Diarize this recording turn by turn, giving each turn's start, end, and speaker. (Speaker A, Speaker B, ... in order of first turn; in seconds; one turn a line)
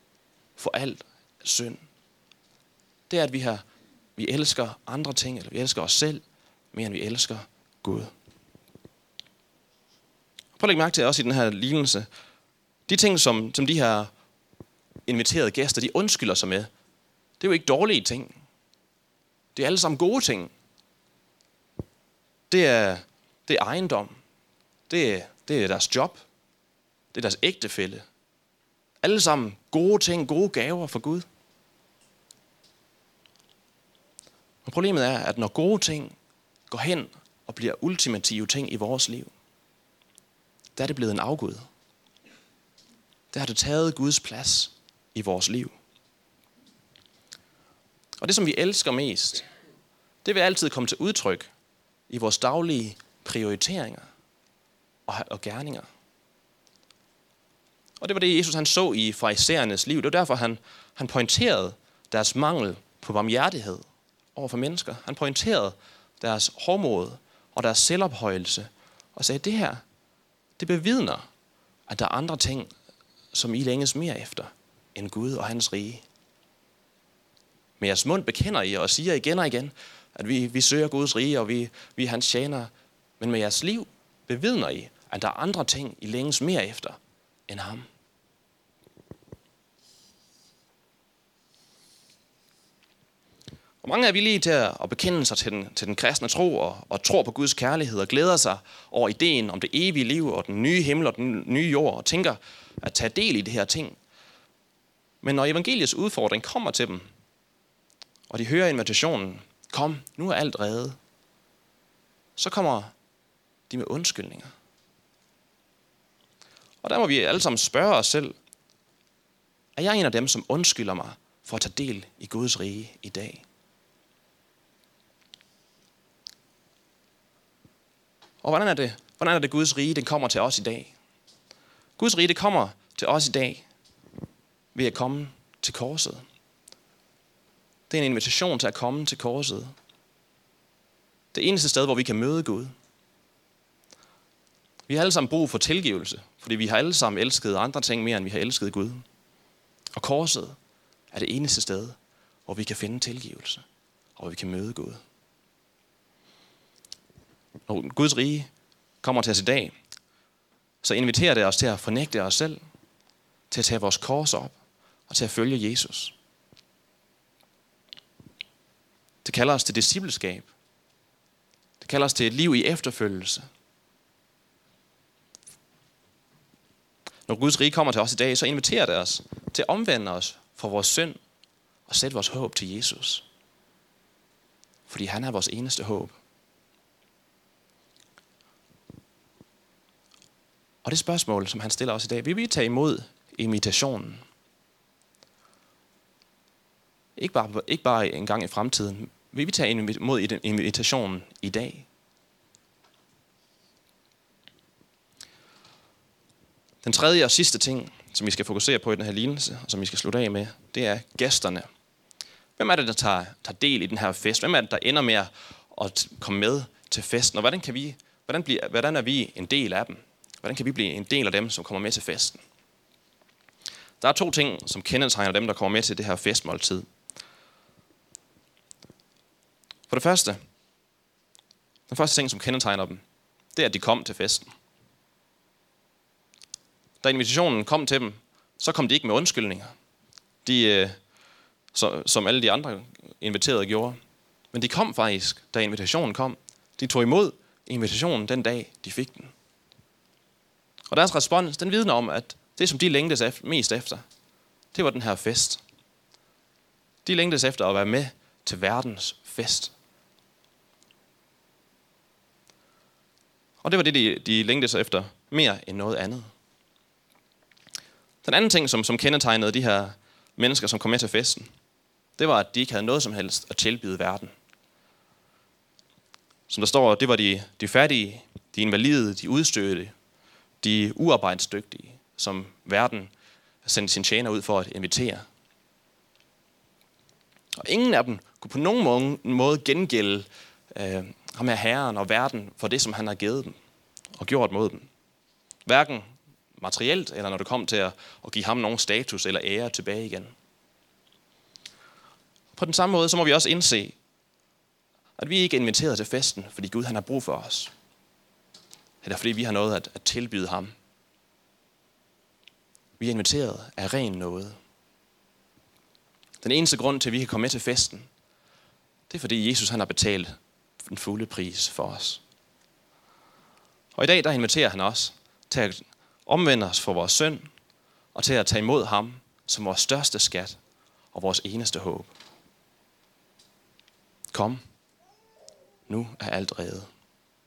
Speaker A: 0.6-1.8
Speaker A: 3.1-3.6
Speaker A: 4.2-8.1
Speaker A: 10.6-12.1
Speaker A: 12.9-14.1
Speaker A: 15.1-16.7
Speaker A: 17.4-18.4
Speaker A: 19.6-20.5
Speaker A: 22.5-24.1
Speaker A: 24.9-26.2
Speaker A: 27.1-28.1
Speaker A: 29.0-31.3
Speaker A: 34.6-36.1
Speaker A: 36.7-39.3
Speaker A: 40.8-41.7
Speaker A: 43.3-45.8
Speaker A: 48.2-49.5
Speaker A: 50.2-51.5
Speaker A: 52.1-54.1
Speaker A: 55.1-55.9
Speaker A: 58.0-69.8
Speaker A: 70.6-71.3
Speaker A: 71.9-72.7
Speaker A: 73.3-76.0
Speaker A: 77.8-87.9
Speaker A: 93.8-104.0
Speaker A: 105.2-107.1
Speaker A: 108.3-111.0
Speaker A: 112.4-112.9
Speaker A: 113.7-114.5
Speaker A: 116.8-118.3
Speaker A: 119.8-123.4
Speaker A: 128.4-130.9
Speaker A: 132.0-133.6
Speaker A: 134.8-136.2
Speaker A: 137.9-139.7
Speaker A: 141.3-142.7
Speaker A: 144.9-149.0
Speaker A: 149.9-150.6
Speaker A: 151.1-153.6
Speaker A: 154.2-155.0
Speaker A: 157.7-158.5
Speaker A: 159.0-159.7
Speaker A: 160.8-162.6
Speaker A: 163.5-164.5
Speaker A: 165.1-166.1
Speaker A: 169.2-170.5
Speaker A: 171.8-173.5
Speaker A: 177.3-181.2
Speaker A: 181.9-183.2
Speaker A: 184.9-186.2
Speaker A: 190.8-194.2
Speaker A: 197.2-201.9
Speaker A: 206.8-211.7
Speaker A: 212.6-222.4
Speaker A: 224.0-226.9
Speaker A: 229.9-230.4
Speaker A: 231.9-233.0
Speaker A: 233.6-234.5
Speaker A: 237.0-239.7
Speaker A: 240.4-241.0
Speaker A: 241.7-244.0
Speaker A: 244.5-249.3
Speaker A: 250.9-254.0
Speaker A: 254.7-255.6
Speaker A: 257.1-259.7
Speaker A: 263.6-266.3
Speaker A: 268.2-271.5
Speaker A: 272.2-274.3
Speaker A: 276.5-279.9
Speaker A: 280.6-283.1
Speaker A: 283.6-285.2
Speaker A: 287.6-293.5
Speaker A: 294.2-294.9
Speaker A: 295.6-300.3
Speaker A: 302.6-303.9
Speaker A: 305.2-307.7
Speaker A: 309.0-310.7
Speaker A: 313.0-314.6
Speaker A: 316.4-318.1
Speaker A: 319.1-322.2
Speaker A: 323.9-327.5
Speaker A: 328.1-330.6
Speaker A: 331.1-332.1
Speaker A: 334.3-334.6
Speaker A: 335.9-336.9